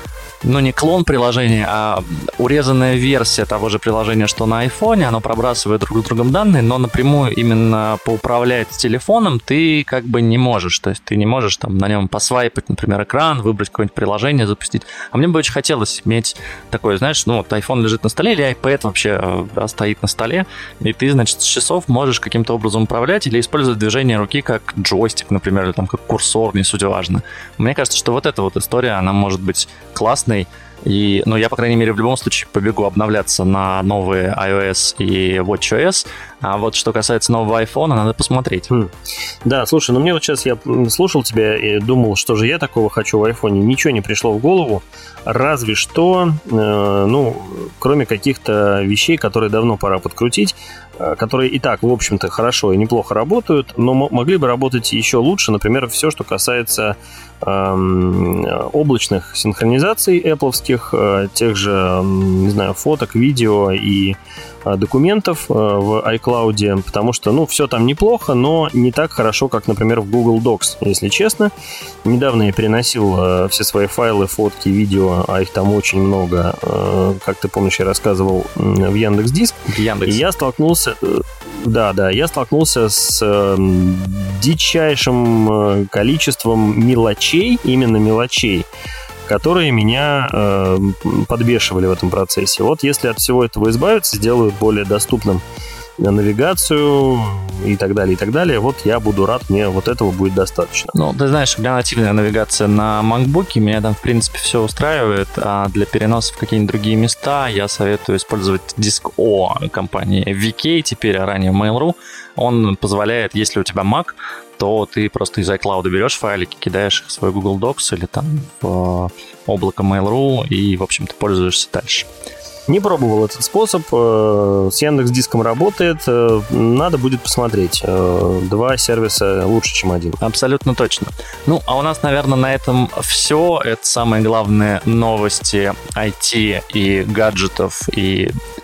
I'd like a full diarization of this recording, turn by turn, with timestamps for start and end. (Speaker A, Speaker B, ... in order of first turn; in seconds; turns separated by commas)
Speaker A: 0.4-38.7, Speaker B: 39.5-71.5, Speaker B: 72.0-88.7, Speaker A: 79.7-80.2, Speaker B: 89.3-95.4, Speaker B: 96.0-100.9, Speaker A: 100.9-122.1, Speaker B: 122.7-130.2, Speaker A: 130.2-138.3